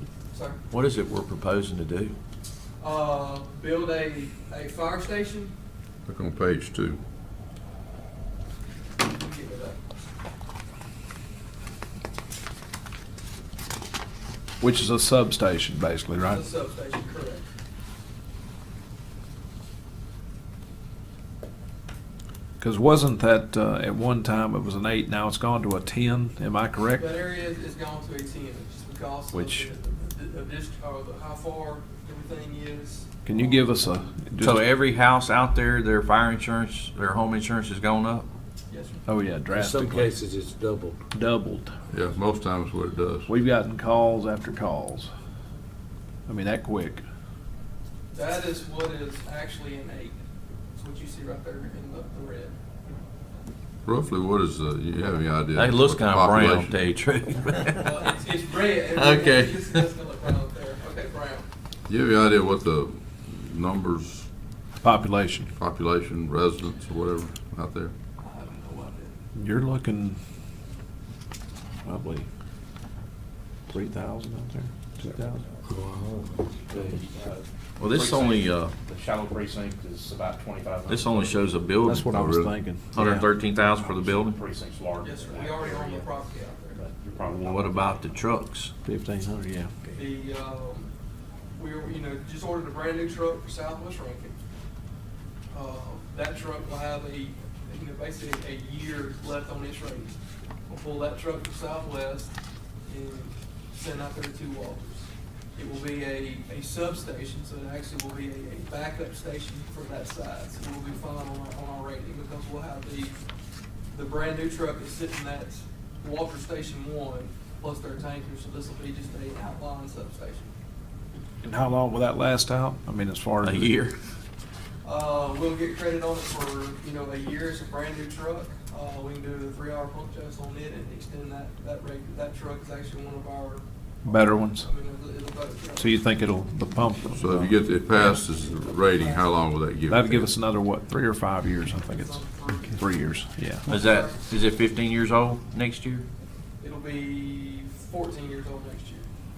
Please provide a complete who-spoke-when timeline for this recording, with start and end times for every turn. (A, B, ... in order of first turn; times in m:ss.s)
0:00.3-0:00.6 A
0:00.7-0:02.2 B
0:02.8-0:05.5 A
0:06.1-0:07.0 C
0:09.0-0:09.8 A
0:14.6-0:16.4 D
0:16.2-0:17.5 A
0:22.6-0:27.0 D
0:27.0-0:33.7 A
0:29.3-0:29.7 D
0:33.3-0:34.6 D
0:34.4-0:38.3 B
0:38.7-0:39.0 A
0:39.1-0:40.1 D
0:39.6-0:41.0 E
0:41.1-0:41.7 D
0:41.9-0:43.3 C
0:43.3-0:45.1 D
0:46.3-0:47.0 D
0:48.1-0:50.2 A
0:50.8-0:52.6 A
0:53.8-0:56.7 C
0:55.6-0:58.0 B
0:57.8-1:01.5 A
0:58.9-0:59.8 B
1:01.9-1:04.3 C
1:04.8-1:05.5 D
1:05.6-1:07.9 C
1:08.2-1:09.2 A
1:09.4-1:10.2 D
1:11.8-1:12.3 D
1:13.7-1:15.4 D
1:15.8-1:16.2 E
1:16.6-1:21.6 F
1:17.8-1:18.8 B
1:20.9-1:22.1 B
1:21.8-1:23.2 D
1:22.1-1:22.5 C
1:22.9-1:24.4 B
1:23.2-1:26.1 F
1:25.0-1:26.8 A
1:26.8-1:28.1 F
1:27.3-1:28.7 B
1:28.8-1:29.8 D
1:29.9-1:30.9 A
1:31.6-1:34.4 A
1:35.5-1:40.2 A
1:40.7-1:42.4 A
1:42.9-1:53.2 A
1:53.9-2:00.5 A
2:01.4-2:03.7 D
2:03.4-2:04.0 B
2:04.8-2:16.0 A
2:14.0-2:14.7 D
2:15.8-2:17.4 D
2:17.1-2:20.2 C
2:18.0-2:19.4 A
2:19.9-2:20.3 A
2:19.9-2:23.7 D
2:21.7-2:22.9 A
2:23.6-2:24.3 A
2:23.7-2:26.0 B
2:26.6-2:29.1 A